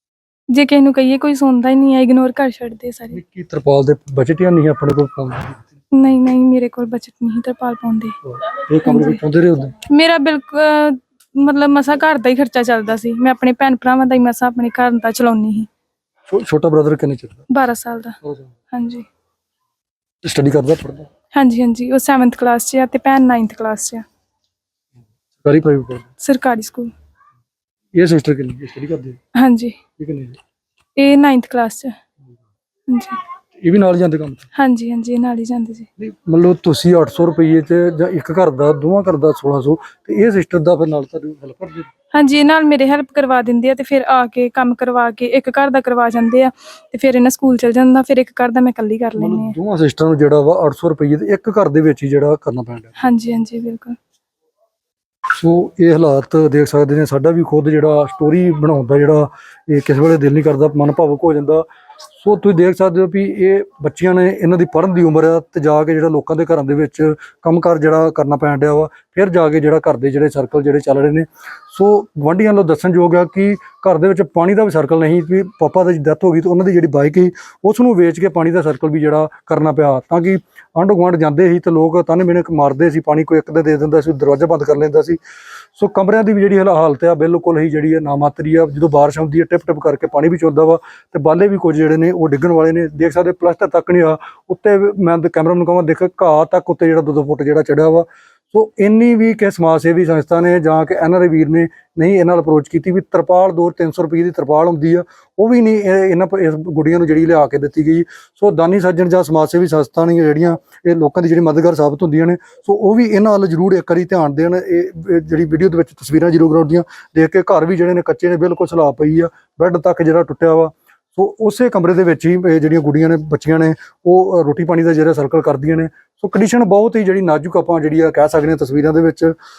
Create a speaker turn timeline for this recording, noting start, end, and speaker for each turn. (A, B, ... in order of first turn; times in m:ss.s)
0:00.5-0:03.2 A
0:03.1-0:05.7 B
0:05.9-0:08.2 A
0:08.2-0:09.7 B
0:08.9-0:09.2 A
0:09.9-0:15.7 A
0:16.3-0:17.4 B
0:17.5-0:18.2 A
0:18.2-0:18.5 B
0:18.7-0:19.1 A
0:20.2-0:21.1 B
0:21.3-0:24.0 A
0:25.4-0:26.1 B
0:26.2-0:26.9 A
0:28.0-0:29.2 B
0:29.4-0:29.8 A
0:30.0-0:30.4 B
0:31.0-0:32.0 A
0:32.9-0:33.2 A
0:33.6-0:34.5 B
0:34.6-0:35.9 A
0:36.0-0:41.9 B
0:42.1-0:49.6 A
0:49.2-0:53.0 B
0:53.0-0:54.0 A
0:55.3-1:01.6 B
1:02.2-1:25.2 B
1:25.8-2:09.4 B